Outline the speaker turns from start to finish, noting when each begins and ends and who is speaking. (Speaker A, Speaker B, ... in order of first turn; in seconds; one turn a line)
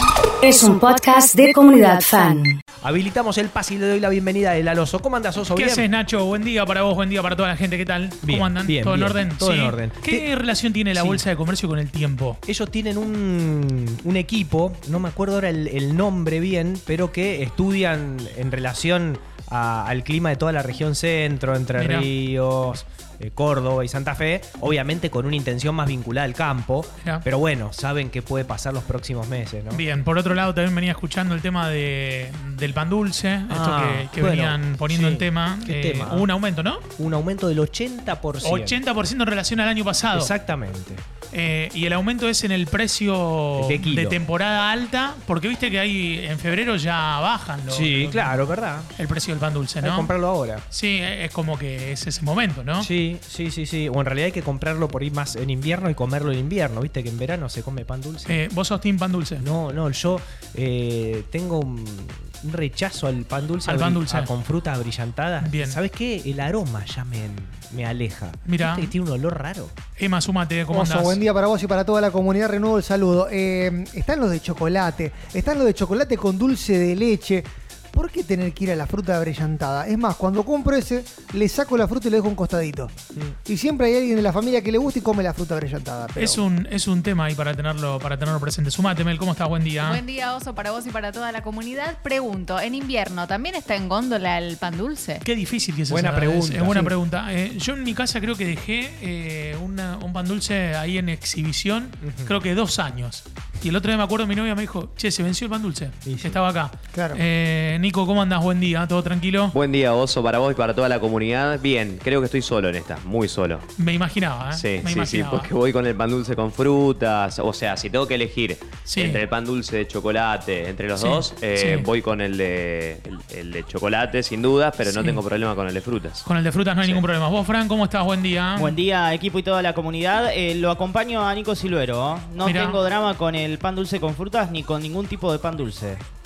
Speaker A: 0.4-2.6
Speaker B: 2.8-5.9
Speaker C: 5.5-12.4
Speaker B: 8.2-10.3
Speaker B: 10.9-11.3
Speaker B: 12.5-29.9
Speaker C: 21.8-22.1
Speaker C: 29.7-36.8
Speaker B: 33.5-36.3
Speaker B: 37.0-38.8
Speaker C: 38.4-40.4
Speaker B: 40.1-41.0
Speaker C: 41.3-48.4
Speaker B: 43.6-44.2
Speaker B: 47.7-48.9
Speaker C: 49.0-50.1
Speaker B: 49.8-50.7
Speaker C: 50.7-52.9
Speaker B: 52.8-58.4
Speaker C: 58.3-59.5
Speaker B: 59.4-69.7
Speaker C: 63.7-64.3
Speaker C: 65.4-65.8
Speaker C: 68.5-68.9
Speaker C: 70.0-71.2
Speaker D: 70.7-82.9
Speaker D: 83.5-86.4
Speaker C: 86.2-90.0
Speaker E: 89.8-95.2
Speaker C: 95.2-109.5
Speaker B: 95.9-97.0
Speaker B: 102.0-102.4
Speaker B: 106.0-106.4
Speaker D: 106.9-107.2
Speaker F: 109.5-113.6
Speaker C: 113.8-115.5
Speaker F: 114.5-126.2
Speaker C: 118.9-119.2
Speaker C: 121.0-121.9
Speaker C: 124.8-125.2
Speaker C: 126.2-128.8
Speaker F: 126.8-127.1
Speaker G: 128.6-136.0
Speaker C: 132.4-132.8